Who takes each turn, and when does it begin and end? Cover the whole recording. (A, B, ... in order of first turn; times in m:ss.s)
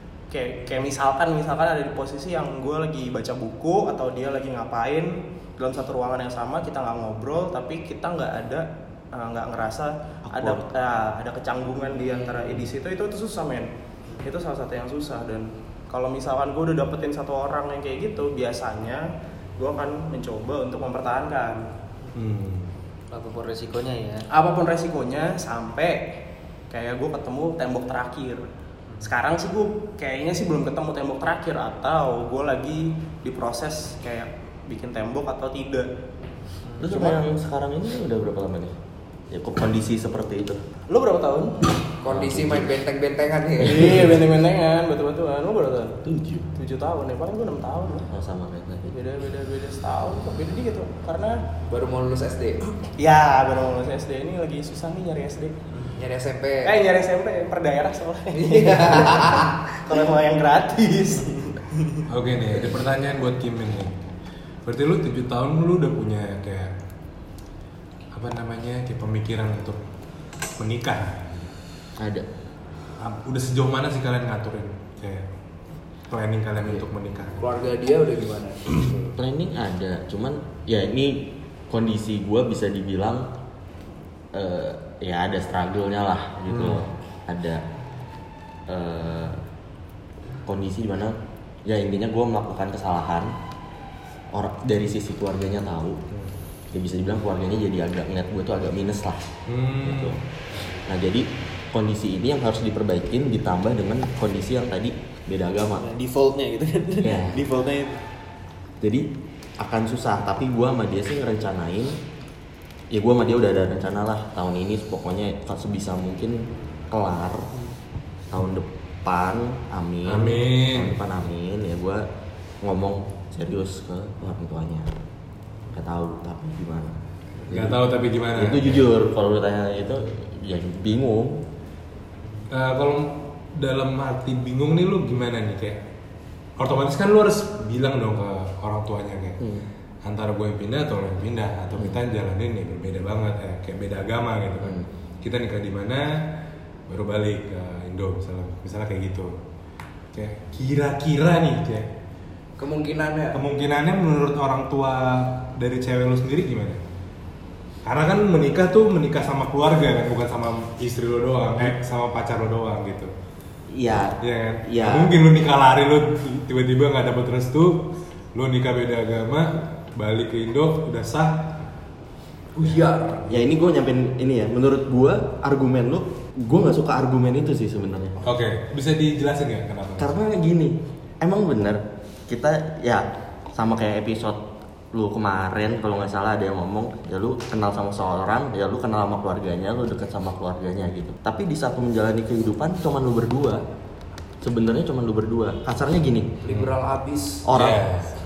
0:00.3-0:13.7 A
0:10.2-0:10.6 B
0:14.2-0:21.7 A
0:22.1-0:22.7 C
0:23.1-0:24.2 D
0:24.3-0:26.1 A
0:26.7-0:28.4 A
0:29.0-0:35.9 A
0:36.8-0:38.7 B
0:36.8-0:37.2 A
0:39.3-0:40.6 B
0:40.9-0:41.7 A
0:42.0-0:44.0 E
0:42.0-0:42.8 B
0:43.6-0:46.0 A
0:46.0-0:46.5 B
0:46.5-0:48.1 A
0:48.0-0:48.9 B
0:48.9-0:51.4 A
0:51.7-0:52.6 E
0:53.0-0:55.6 A
0:55.9-0:56.7 E
0:56.6-1:01.6 A
0:58.3-0:59.6 E
1:02.1-1:04.0 C
1:04.6-1:06.7 C
1:08.1-1:09.8 C
1:10.6-1:11.5 C
1:12.0-1:12.3 B
1:13.0-1:15.2 C
1:16.1-1:17.6 C
1:17.4-1:19.1 E
1:19.2-1:23.3 B
1:24.3-1:27.6 B
1:26.5-1:26.8 C
1:28.7-1:29.4 B
1:30.4-1:33.3 B
1:34.3-1:36.0 B
1:36.7-1:40.2 B
1:39.5-1:40.2 C
1:40.8-1:45.8 B
1:45.8-1:48.0 D
1:47.0-1:47.4 B
1:48.8-1:52.0 B
1:52.9-1:57.5 B
1:58.3-2:02.1 B
2:00.0-2:01.0 C
2:02.6-2:04.9 B
2:05.7-2:07.0 B
2:07.5-2:07.8 B
2:07.5-2:08.9 C
2:08.3-2:11.4 B
2:12.5-2:15.8 C
2:16.6-2:19.4 C
2:20.0-2:26.3 C
2:26.9-2:29.4 C
2:30.1-2:31.9 C
2:32.6-2:33.4 E
2:33.3-2:36.8 C
2:37.8-2:43.1 C
2:43.7-2:45.1 B
2:44.2-2:51.5 C
2:52.5-2:53.5 E
2:53.3-2:58.2 B
2:58.2-3:00.1 C
3:00.0-3:04.4 B
3:04.9-3:13.6 B
3:14.4-3:16.3 B
3:16.4-3:17.4 E
3:16.5-3:16.7 C
3:17.5-3:17.8 B
3:17.5-3:18.1 C